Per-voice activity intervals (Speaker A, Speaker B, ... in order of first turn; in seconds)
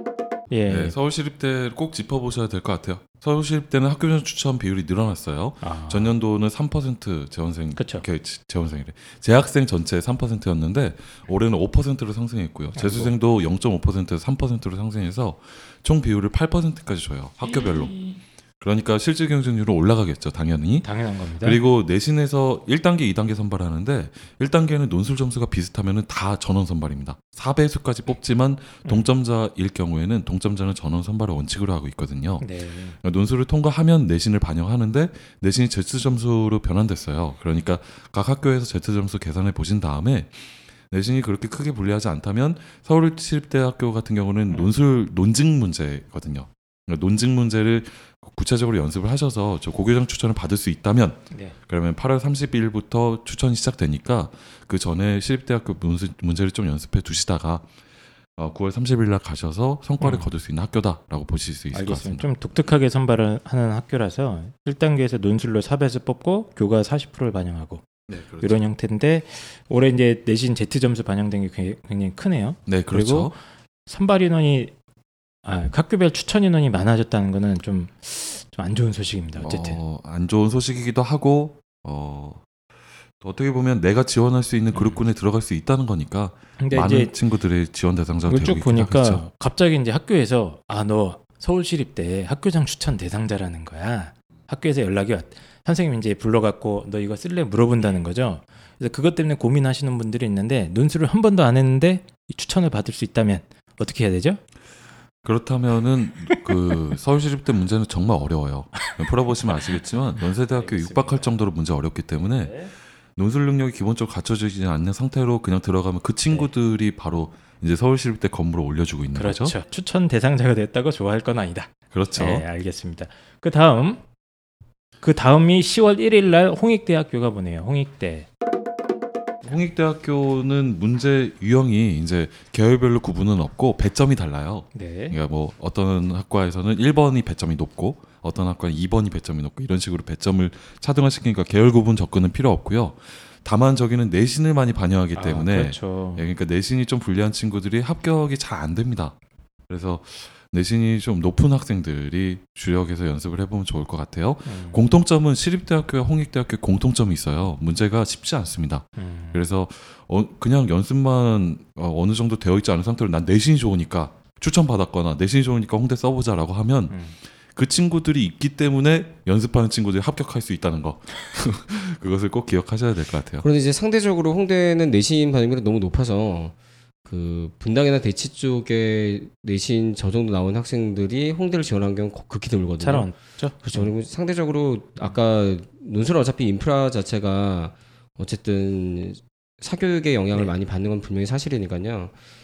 Speaker A: 0.5-0.9, 5.6-6.1, 7.8-8.0, 12.7-13.1, 20.8-21.6, 32.4-33.0, 60.0-60.3, 61.7-74.7, 75.4-79.8, 84.7-85.0, 86.6-87.1, 88.3-104.4, 106.3-106.5, 110.5-111.3, 112.4-112.7, 119.1-124.0, 125.0-128.3, 134.7-135.2, 145.2-146.2, 154.4-154.8, 159.0-159.4, 166.9-167.2, 182.8-183.9
Speaker B: 0.7-18.1, 18.6-57.7, 58.4-62.3, 68.1-68.6, 72.7-73.3, 79.4-82.4, 83.2-89.2, 105.2-119.5, 121.9-122.4, 129.4-149.2, 149.7-167.0, 167.5-173.4
Speaker C: 173.4-192.1